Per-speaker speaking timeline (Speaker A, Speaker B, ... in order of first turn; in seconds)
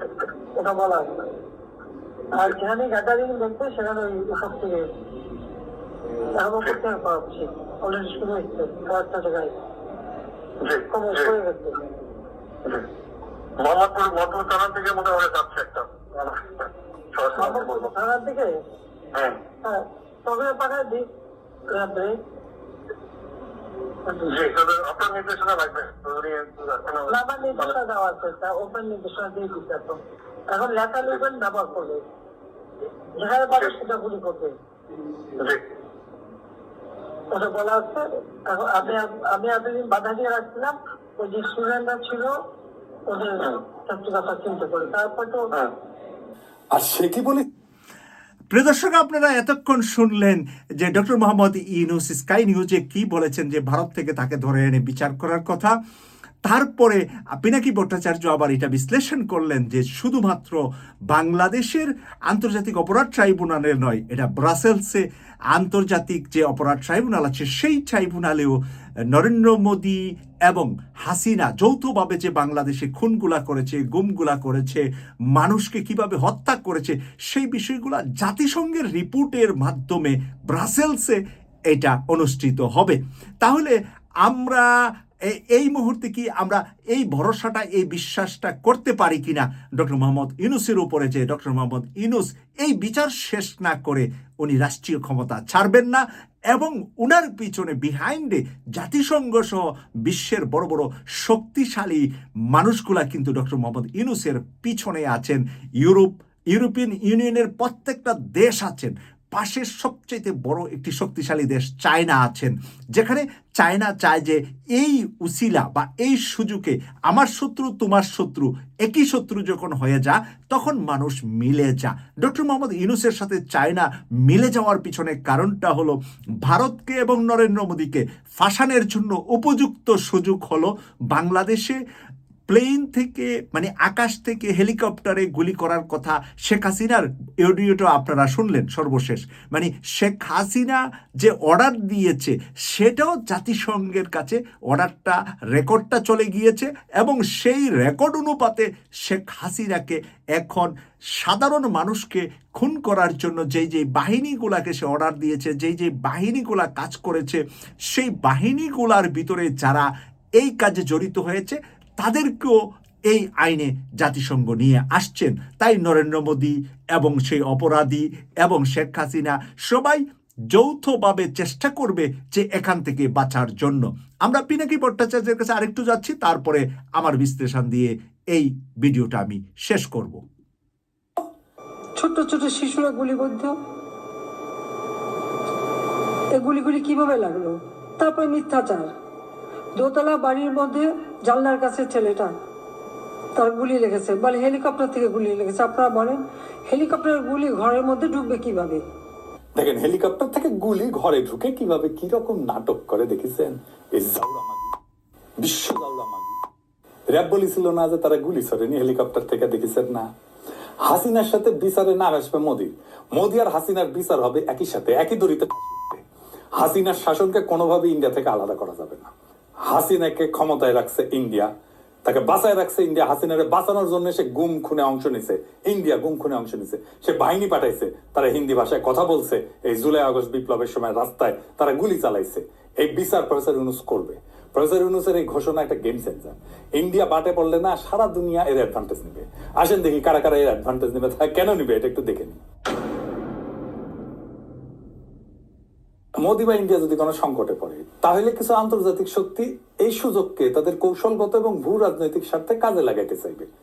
Speaker A: 0.6-1.2, 2.3-4.9, 6.3-9.5, 10.9-11.8, 17.3-18.5, 19.6-21.1, 21.7-22.2, 27.1-30.0, 30.5-32.0, 33.2-34.5, 37.3-42.3, 43.1-45.5
Speaker B: 10.6-11.3, 13.6-17.9, 19.1-19.4, 24.2-27.7
Speaker C: 46.7-47.4, 199.6-204.7, 205.4-206.4, 207.1-210.1, 210.8-216.0, 216.5-221.5, 222.0-242.4, 246.2-253.5
Speaker D: 48.5-55.7, 56.5-68.6, 69.1-81.2, 81.7-84.7, 85.3-131.8, 132.5-159.9, 160.4-162.5, 163.1-180.2
Speaker E: 182.0-183.6, 186.3-188.9, 189.8-192.3, 193.3-198.8